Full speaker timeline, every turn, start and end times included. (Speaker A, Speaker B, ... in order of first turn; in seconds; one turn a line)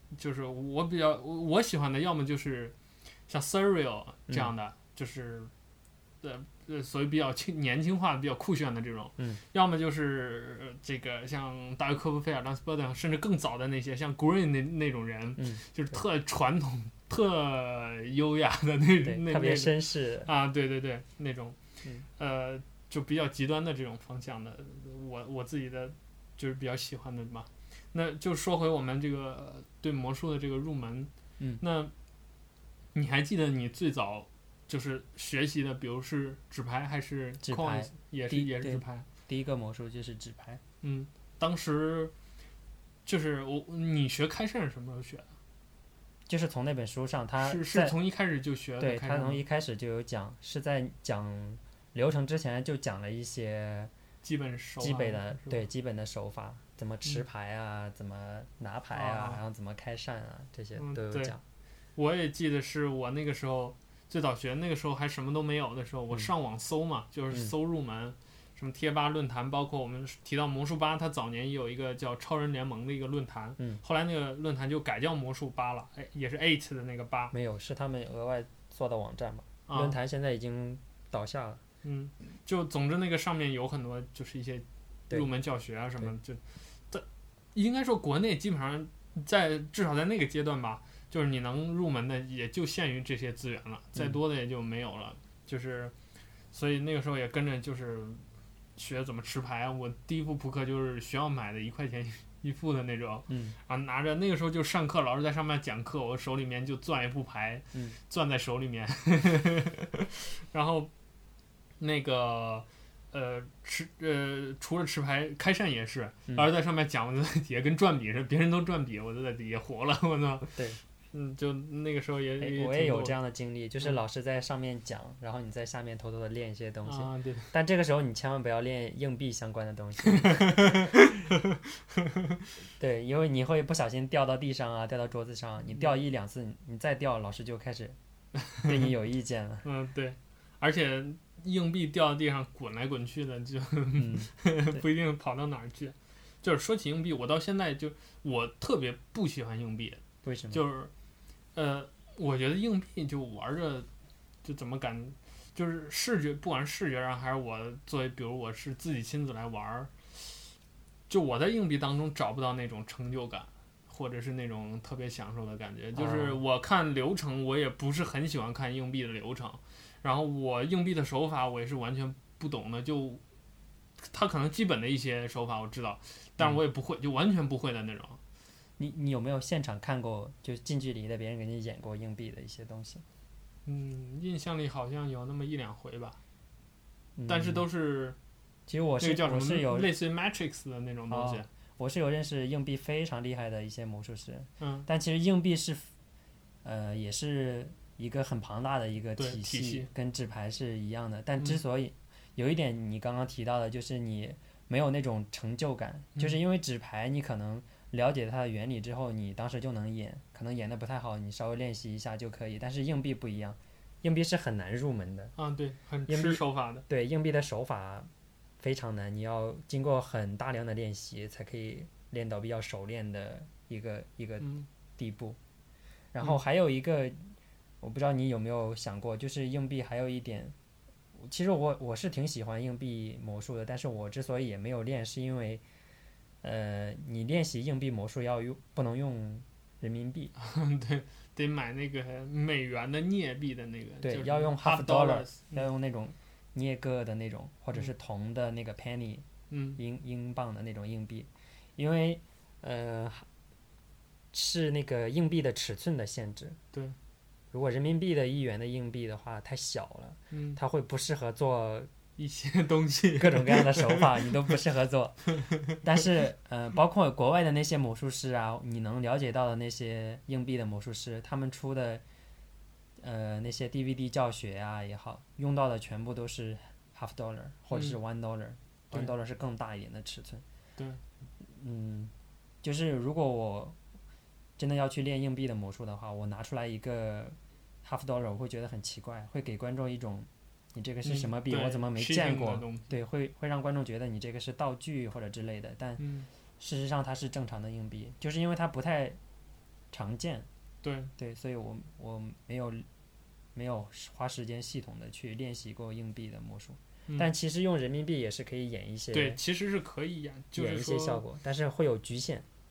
Speaker A: 0.1-2.7
Speaker A: 3.3-5.5
Speaker A: 6.2-21.6
Speaker B: 15.4-16.0
Speaker B: 19.0-20.3
Speaker A: 22.2-31.9
Speaker A: 32.9-39.0
Speaker B: 37.4-40.6
Speaker A: 40.8-42.1
Speaker A: 43.0-45.3
Speaker B: 46.3-47.9
Speaker A: 47.4-49.4
Speaker B: 48.8-53.9
Speaker A: 54.2-55.6
Speaker B: 54.8-61.4
Speaker A: 58.9-59.4
Speaker A: 60.7-61.3
Speaker A: 62.0-77.3
Speaker B: 77.3-81.6
Speaker A: 79.7-80.0
Speaker A: 81.8-95.9
Speaker A: 96.5-98.2
Speaker A: 98.8-110.9
Speaker B: 103.3-103.6
Speaker A: 111.8-120.6
Speaker A: 121.1-123.1
Speaker B: 122.4-130.8
Speaker A: 126.8-127.5
Speaker A: 130.3-131.2
Speaker B: 132.8-138.0
Speaker B: 138.6-139.6
Speaker A: 139.6-150.9
Speaker B: 144.0-144.8
Speaker B: 150.2-150.6
Speaker A: 151.5-153.9
Speaker A: 154.4-159.9
Speaker A: 161.1-173.2
Speaker B: 165.9-166.4
Speaker A: 174.1-178.2
Speaker B: 178.8-183.0
Speaker A: 183.7-186.2
Speaker B: 187.2-187.6
Speaker A: 187.3-188.2
Speaker B: 188.7-189.9
Speaker A: 189.0-191.5
Speaker B: 191.1-195.9
Speaker A: 194.6-194.9
Speaker B: 196.6-215.3
Speaker A: 199.2-199.9
Speaker A: 215.3-216.8
Speaker B: 216.1-225.4
Speaker A: 224.4-224.7
Speaker B: 226.1-230.6
Speaker B: 231.2-235.6
Speaker B: 236.4-240.3
Speaker A: 240.3-245.6
Speaker B: 244.0-253.3
Speaker A: 249.5-249.8
Speaker B: 254.3-256.6
Speaker B: 257.5-261.9
Speaker A: 260.3-260.6
Speaker A: 262.2-264.3
Speaker B: 263.2-272.0
Speaker B: 273.0-280.4
Speaker B: 281.4-283.8
Speaker B: 284.6-296.0
Speaker A: 291.0-292.9
Speaker A: 296.0-296.3
Speaker B: 296.6-299.2
Speaker B: 299.9-300.5
Speaker A: 300.8-301.1
Speaker B: 301.2-302.9
Speaker B: 303.5-309.4
Speaker A: 309.1-311.2
Speaker B: 310.5-312.4